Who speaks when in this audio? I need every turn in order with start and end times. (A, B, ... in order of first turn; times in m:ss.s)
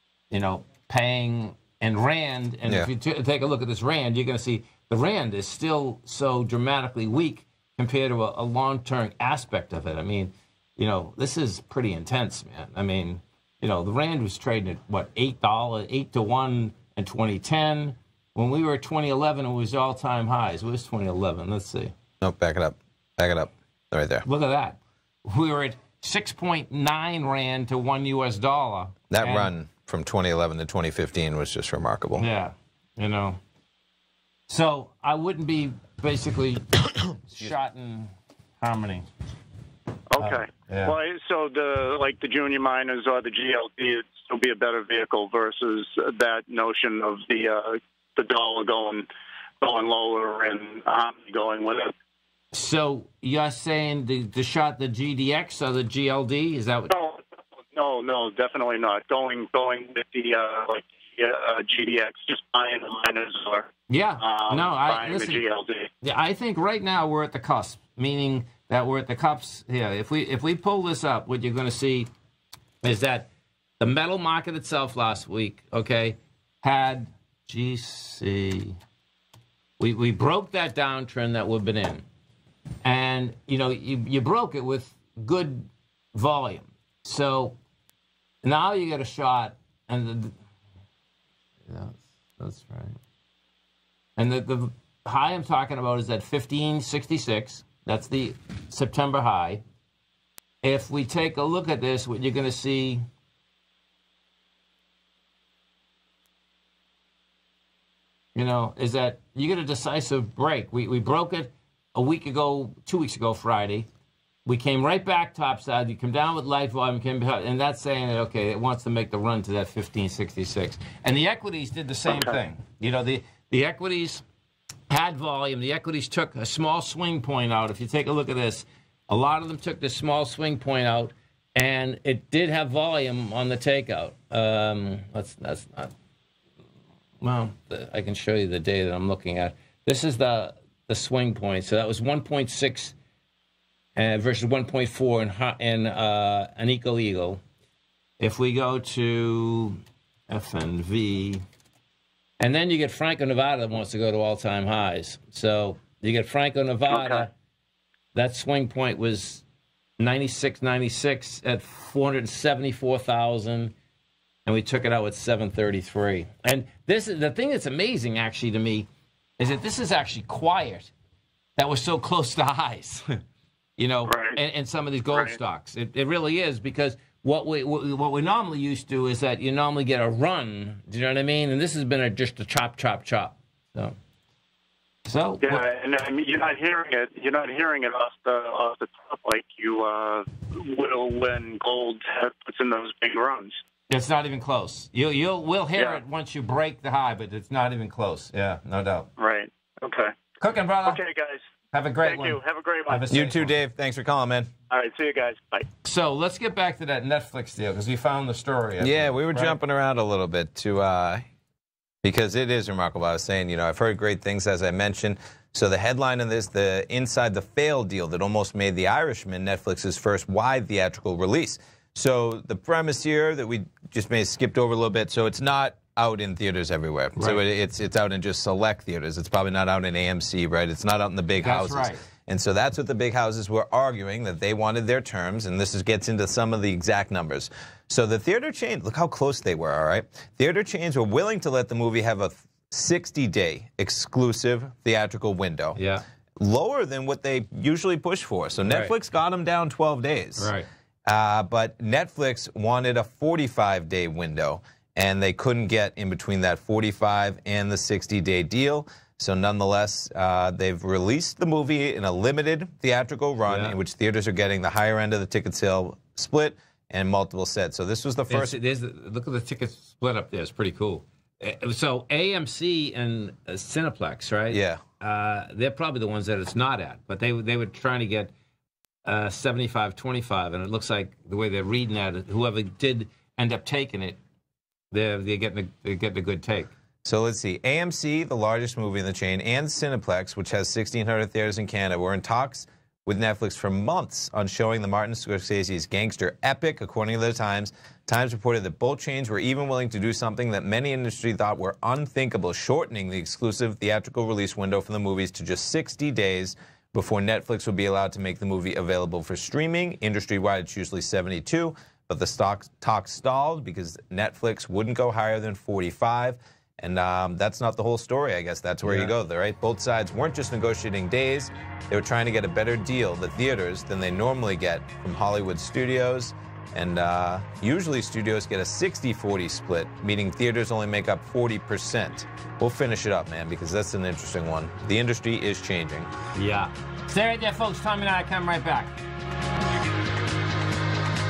0:00.3-0:21.9 A
0:22.2-0:24.2 B
0:24.2-0:29.5 A
0:29.1-0:32.2 B
0:32.2-0:33.4 A
0:34.5-0:39.1 A
0:40.1-0:49.1 C
0:40.2-0:41.0 A
0:49.6-0:51.9 C
0:52.5-0:56.9 A
0:56.9-1:05.9 C
1:03.9-1:05.4 A
1:06.0-1:12.1 A
1:12.8-1:13.3 A
1:13.8-1:18.8 A
1:19.8-1:22.0 A
1:22.8-1:27.6 A
1:28.4-1:30.4 A
1:31.7-1:33.0 A
1:34.2-1:39.6 A
1:40.6-1:43.0 A
1:48.3-1:53.9 A
1:54.4-2:04.2 A
2:04.9-2:15.9 A
2:17.2-2:22.9 A
2:24.0-2:27.4 A
2:28.2-2:31.4 A
2:32.4-2:37.3 A
2:36.9-2:37.2 C
2:38.1-2:39.4 A
2:40.0-2:43.7 A
2:44.4-2:48.9 A
2:49.4-2:50.9 A
2:51.6-2:53.2 A
2:53.8-3:04.0 A
2:54.1-2:54.4 C
3:05.0-3:05.6 A
3:05.4-3:13.6 C
3:13.9-3:19.1 A
3:15.8-3:16.0 C
3:19.2-3:20.2 C
3:20.4-3:21.0 A
3:20.8-3:21.5 C
3:21.7-3:23.5 A
3:22.0-3:23.1 C
3:23.1-3:24.5 B
3:24.7-3:25.7 C
3:25.8-3:29.6 A
3:28.8-3:31.3 B
3:32.0-4:05.8 B
3:47.2-3:47.4 A
3:51.4-3:52.0 A
4:05.8-4:06.0 A
4:06.4-4:10.5 B
4:08.6-4:08.9 A
4:10.4-4:10.7 A
4:11.0-4:28.6 B
4:23.5-4:23.8 A
4:28.3-4:38.3 A
4:34.5-4:34.8 B
4:39.0-4:44.2 A
4:44.9-4:46.7 A
4:47.0-5:36.1 B
5:18.8-5:19.1 A
5:36.3-5:39.0 A